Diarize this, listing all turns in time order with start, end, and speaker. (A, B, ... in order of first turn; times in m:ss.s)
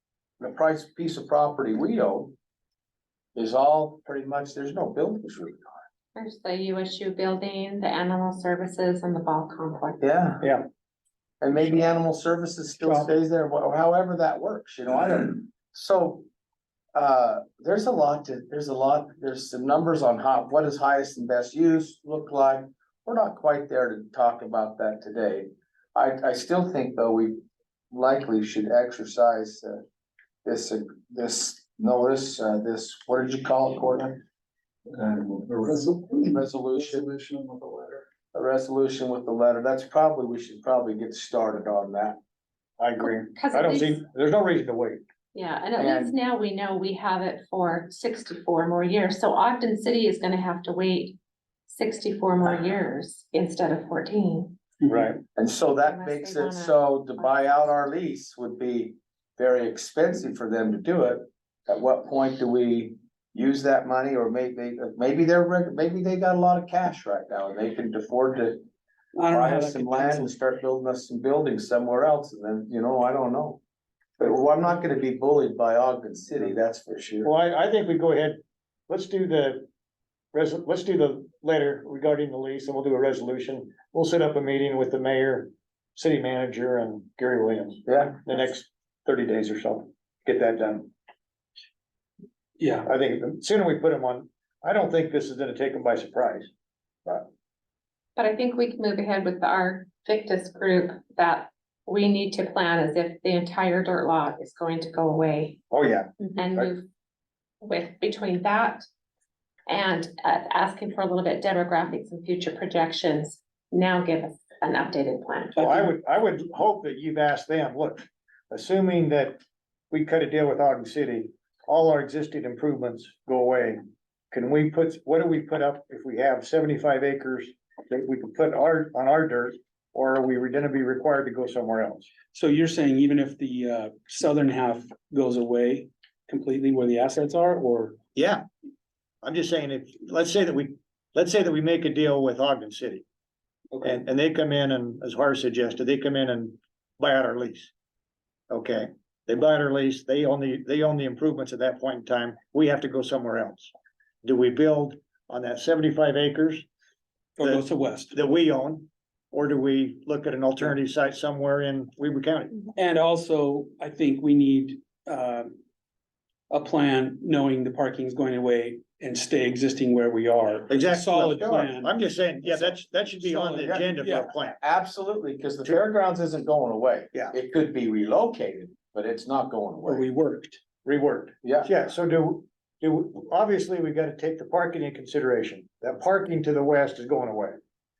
0:00.4-0:02.3 A
0:03.4-0:05.8 A
0:06.2-0:10.0 B
0:10.0-0:10.5 A
0:11.4-0:16.2 A
0:16.9-0:29.8 A
0:30.4-0:34.2 A
0:34.9-0:38.0 C
0:35.6-0:37.2 A
0:38.3-0:42.2 A
0:42.8-0:45.0 D
0:43.3-0:44.0 B
0:45.3-0:51.2 B
0:45.8-0:46.1 A
0:51.7-0:54.6 B
0:54.8-0:55.2 D
0:55.4-1:08.6 A
0:55.8-0:57.7 B
1:09.2-1:10.3 E
1:09.3-1:13.6 A
1:14.2-1:17.3 A
1:17.2-1:19.7 D
1:20.3-1:30.9 D
1:27.9-1:28.2 A
1:32.6-1:32.8 E
1:32.8-1:36.5 D
1:38.2-1:45.6 B
1:45.7-1:46.7 D
1:46.4-1:46.9 B
1:47.6-1:48.8 B
1:49.7-1:55.6 B
1:55.6-2:03.8 D
2:04.3-2:12.1 D
2:12.3-2:18.0 E
2:18.1-2:18.4 D
2:19.2-2:23.0 D
2:23.8-2:27.7 D
2:28.5-2:33.7 D
2:34.2-2:36.6 D
2:37.4-2:42.6 D
2:37.4-2:38.1 E
2:42.8-2:45.6 E
2:46.5-2:51.9 E
2:50.7-2:54.6 D
2:53.3-2:54.3 E
2:54.6-3:00.0 A
2:59.9-3:00.6 E
3:00.8-3:07.6 D
3:01.4-3:01.7 A